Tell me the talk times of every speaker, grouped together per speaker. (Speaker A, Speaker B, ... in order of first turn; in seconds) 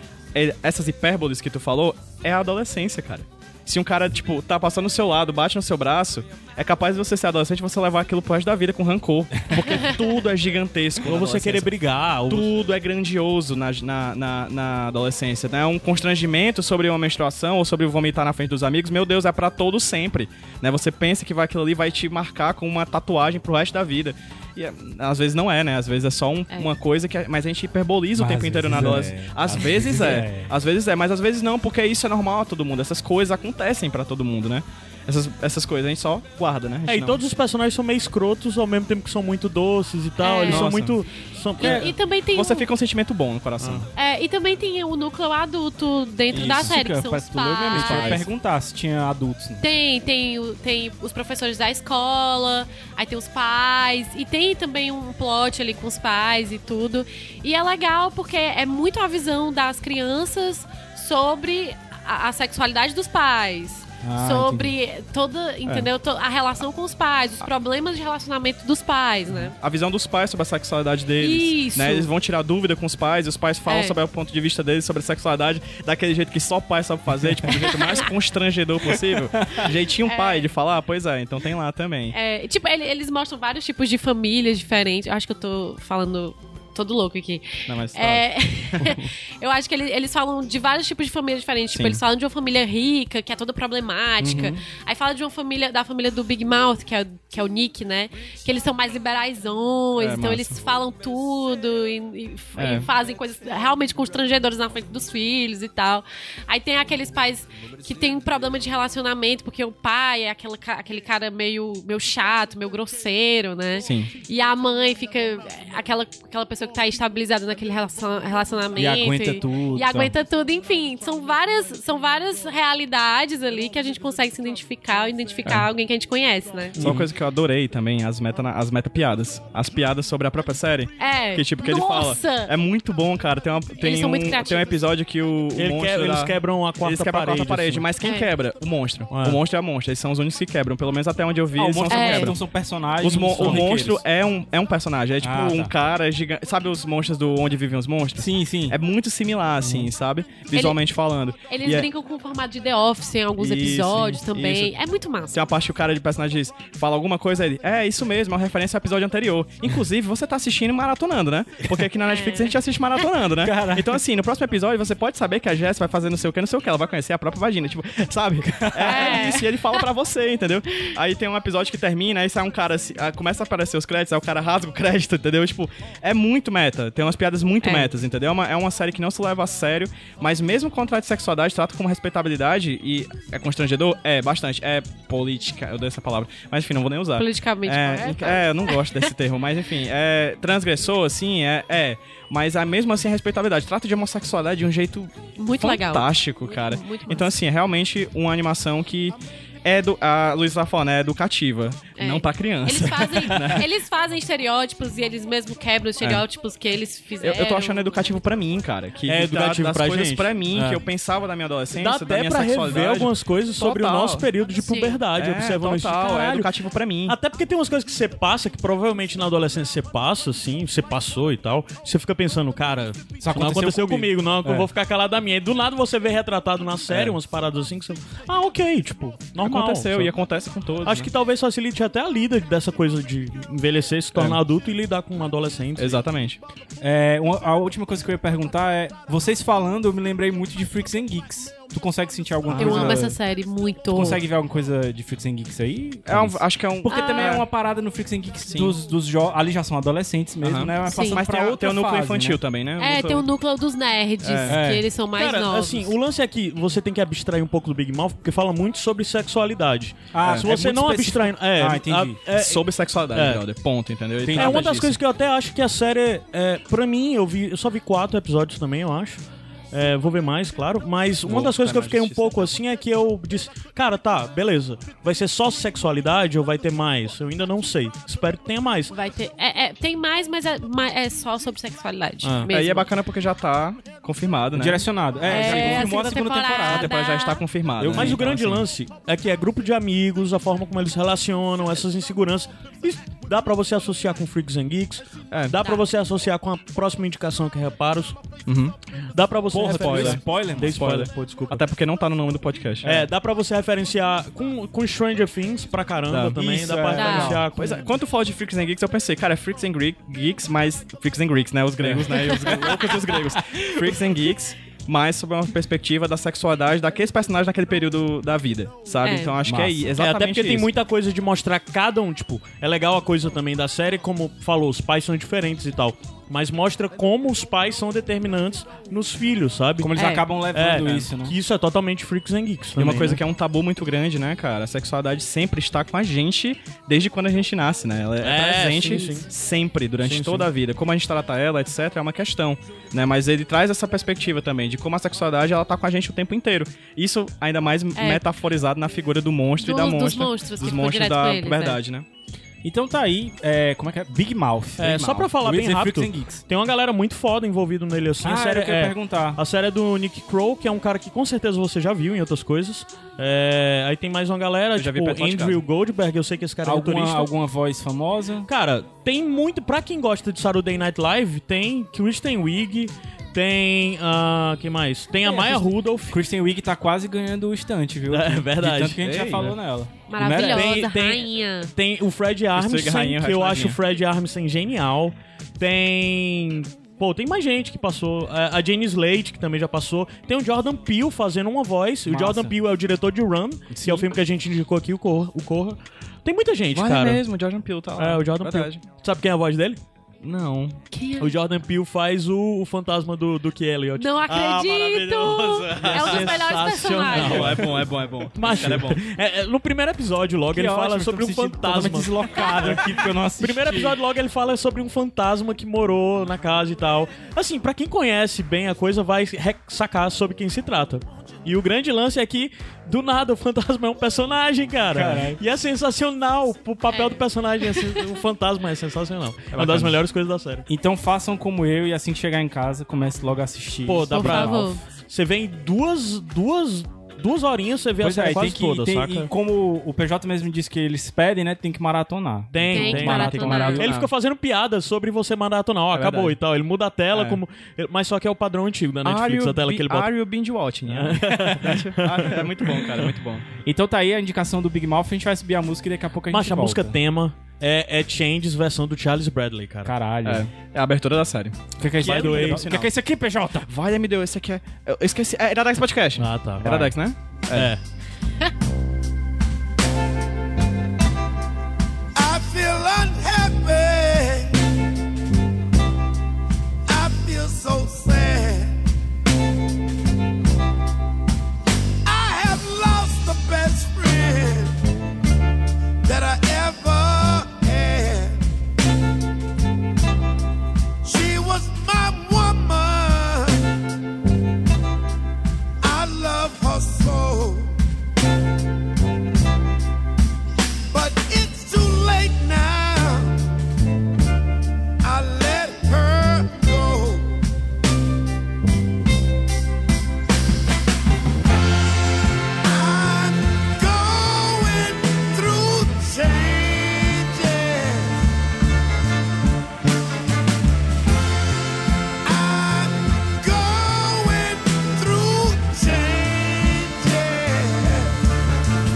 Speaker A: 0.3-11.7, 12.3-37.2, 40.5-41.0, 42.3-43.9, 46.3-46.7, 47.7-48.2, 69.3-82.2, 87.7-89.0, 91.7-92.0, 94.2-94.5, 100.0-100.5, 102.6-102.9, 113.8-114.1, 126.8-142.4, 143.0-151.9, 153.4-154.7, 155.3-203.7, 207.2-214.3, 215.1-217.2, 226.9-227.2, 229.4-231.1, 234.1-234.4, 235.8-236.4, 242.5-243.1, 246.1-247.5, 248.5-248.8, 250.4-253.3, 254.2-254.6, 262.3-264.9, 271.2-272.5, 282.5-288.2, 295.3-295.6, 298.5-298.7, 299.7-302.9, 306.1-306.4, 307.6-320.7, 332.8-352.1, 364.8-365.6, 379.0-379.5, 382.5-383.8, 396.7-398.8, 400.2-400.8, 404.3-409.0, 429.5-429.9, 443.6-444.1, 445.9-446.4, 447.1-447.4, 449.0-453.4, 460.2-462.9, 463.6-467.7
Speaker B: 11.0-12.5, 36.9-41.9, 43.6-43.9, 126.8-127.1, 135.5-137.8, 139.1-139.4, 143.4-143.7, 209.1-210.8, 211.7-216.5, 217.1-230.1, 230.8-236.0, 255.1-263.4, 264.3-269.2, 269.7-278.9, 282.2-282.5, 287.8-298.2, 299.1-301.6, 302.8-307.9, 319.9-333.2, 338.2-339.3, 340.0-340.5, 354.8-367.3, 368.4-376.2, 378.1-379.6, 380.2-397.2, 397.9-399.8, 401.2-404.7, 405.7-412.8, 413.4-430.7, 433.9-439.3, 442.5-450.1, 450.9-453.1, 456.3-460.0, 462.0-462.7, 466.2-466.9, 467.5-467.8
Speaker C: 28.1-30.5, 41.6-41.9, 46.3-49.6, 64.0-64.7, 118.8-120.1, 141.5-144.0, 145.2-145.7, 148.2-148.8, 163.3-164.0, 168.4-169.3, 223.2-224.7, 236.8-243.2, 243.9-252.4, 254.5-254.8, 260.1-262.2, 264.2-264.9, 284.5-286.9, 287.8-288.7, 299.5-300.9, 302.8-303.1, 306.3-307.5, 311.8-312.4, 319.4-319.9, 329.8-331.4, 352.6-356.4, 358.2-359.4, 366.6-368.5, 376.1-380.8, 392.1-392.5, 393.7-394.2, 410.5-414.0, 424.9-425.4, 430.7-434.8, 438.0-443.9, 453.6-457.0, 459.8-460.5, 461.8-463.7
Speaker D: 40.2-40.6, 41.6-42.7, 44.0-48.2, 49.6-69.5, 71.2-72.1, 73.7-73.9, 77.5-78.0, 80.0-80.5, 82.1-126.8, 131.0-132.5, 133.8-134.7, 138.0-138.3, 141.9-142.3, 150.5-150.8, 151.5-155.4, 162.0-162.5, 168.8-169.8, 177.6-177.9, 187.2-189.1, 195.4-197.3, 201.9-208.0, 214.6-215.0, 242.6-244.2, 246.9-247.4, 250.8-251.2, 252.8-255.9, 278.9-282.9, 285.2-287.4, 295.6-295.8, 306.9-307.3, 319.0-319.4, 330.0-330.2, 347.9-348.2, 349.6-351.8, 380.1-381.7, 400.9-401.3, 403.9-407.6, 412.3-412.6, 426.9-428.0, 434.1-434.8, 442.7-443.8
Speaker E: 472.2-474.6, 476.9-478.7, 482.1-484.7, 486.1-488.3, 491.1-493.5, 495.9-497.7, 500.9-503.3, 505.1-507.2, 512.7-518.1, 522.2-528.1